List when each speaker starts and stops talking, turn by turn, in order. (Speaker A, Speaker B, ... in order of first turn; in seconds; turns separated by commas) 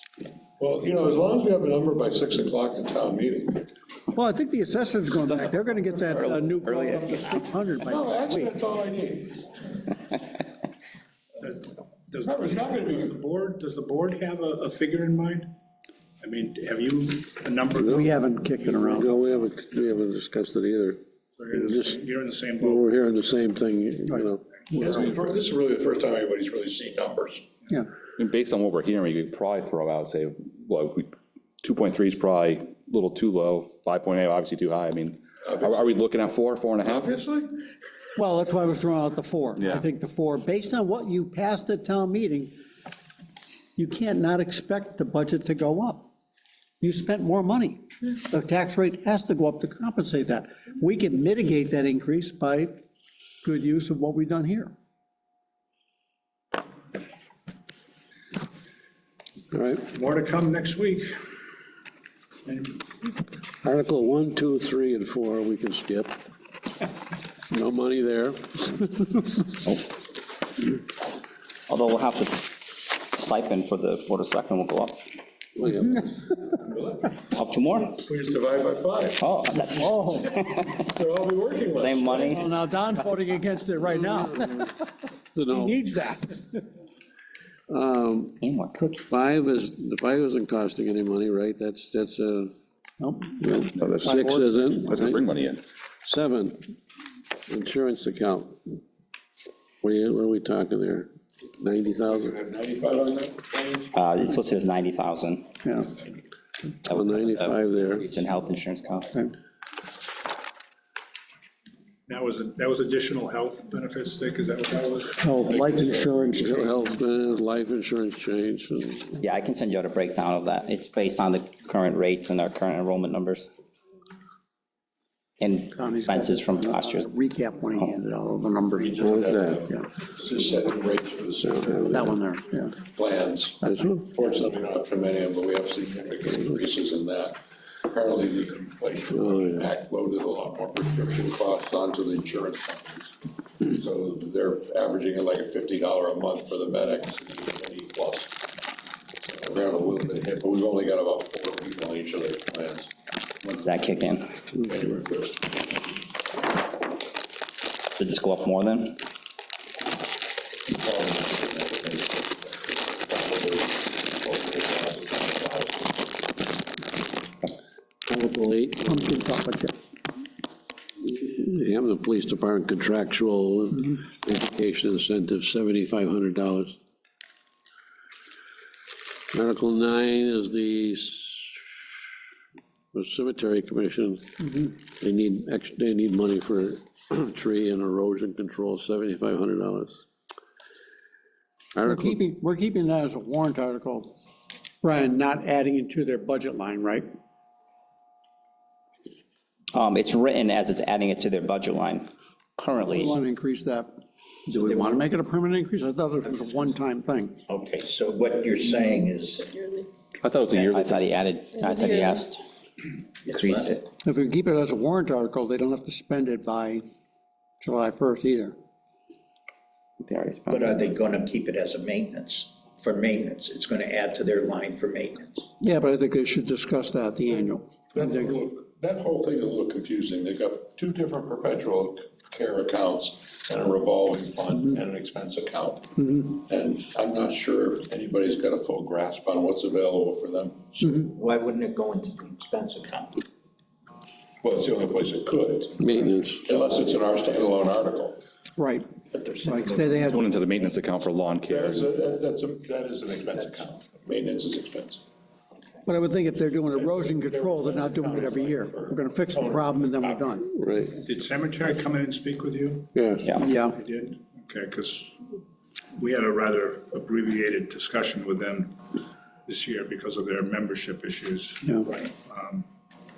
Speaker A: 0.6-3.6, Speaker B: 4.1-8.5, Speaker C: 5.3-7.3, Speaker A: 7.8-9.7, Speaker D: 11.4-15.5, Speaker A: 12.2-13.1, Speaker D: 16.2-18.5, Speaker E: 17.8-18.1, Speaker B: 17.9-19.1, Speaker E: 18.6-21.0, Speaker D: 21.4-22.9, Speaker E: 21.5-22.0, Speaker E: 22.6-25.0, Speaker A: 24.7-27.4, Speaker F: 28.2-37.1, Speaker A: 35.4-35.9, Speaker A: 36.8-37.6, Speaker B: 38.2-42.5, Speaker B: 43.8-46.1, Speaker B: 46.8-52.8, Speaker B: 53.4-54.7, Speaker E: 59.5-59.9, Speaker D: 59.9-61.1, Speaker D: 62.5-62.9, Speaker E: 63.6-66.2, Speaker E: 67.5-69.5, Speaker C: 71.7-75.0, Speaker E: 75.5-76.1, Speaker A: 76.5-77.2, Speaker C: 77.3-78.0, Speaker A: 78.0-82.5, Speaker C: 79.2-80.8, Speaker B: 79.7-80.3, Speaker C: 81.7-82.4, Speaker B: 82.3-85.0, Speaker E: 83.8-85.8, Speaker B: 85.5-86.6, Speaker E: 87.7-88.4, Speaker C: 88.4-89.0, Speaker E: 89.1-92.5, Speaker B: 93.0-94.9, Speaker E: 93.4-95.2, Speaker F: 93.8-94.0, Speaker F: 94.8-95.6, Speaker E: 96.0-96.7, Speaker E: 97.5-98.8, Speaker E: 99.8-102.3, Speaker A: 102.0-103.9, Speaker C: 103.9-105.6, Speaker B: 105.6-105.9, Speaker C: 106.8-109.3, Speaker E: 106.9-108.1, Speaker D: 112.1-115.2, Speaker B: 115.2-116.7, Speaker A: 115.5-116.5, Speaker E: 116.4-119.2, Speaker C: 119.2-123.5, Speaker C: 125.4-127.1, Speaker B: 125.7-129.1, Speaker A: 128.8-132.2, Speaker E: 129.0-129.6, Speaker E: 131.4-132.0, Speaker B: 131.9-132.8, Speaker A: 132.8-148.4, Speaker E: 133.6-134.1, Speaker E: 139.1-139.7, Speaker A: 149.3-152.9, Speaker C: 153.4-154.4, Speaker A: 154.6-155.7, Speaker C: 157.9-159.0, Speaker A: 160.7-166.3, Speaker E: 168.0-169.2, Speaker B: 168.8-169.7, Speaker E: 171.0-176.8, Speaker E: 179.3-182.3, Speaker E: 182.9-190.0, Speaker E: 191.7-192.2, Speaker B: 191.8-194.1, Speaker B: 194.8-197.1, Speaker C: 199.7-203.2, Speaker B: 202.8-207.4, Speaker G: 204.5-205.0, Speaker G: 206.4-206.7, Speaker G: 207.5-209.9, Speaker F: 210.2-211.0, Speaker G: 210.5-210.9, Speaker C: 210.7-212.4, Speaker G: 213.2-213.8, Speaker C: 213.3-213.8, Speaker B: 214.0-216.8, Speaker B: 217.6-218.5, Speaker C: 220.0-220.8, Speaker G: 220.5-225.5, Speaker B: 225.6-228.3, Speaker A: 227.9-240.8, Speaker G: 240.8-243.2, Speaker A: 244.4-248.2, Speaker E: 245.8-246.4, Speaker B: 248.6-248.9, Speaker G: 249.1-250.8, Speaker B: 249.4-250.3, Speaker F: 250.1-251.9, Speaker A: 251.5-255.0, Speaker B: 255.8-260.5, Speaker A: 256.7-260.4, Speaker E: 260.5-260.9, Speaker D: 261.0-265.1, Speaker E: 262.9-263.3, Speaker B: 263.4-263.8, Speaker D: 266.0-268.8, Speaker D: 269.4-272.6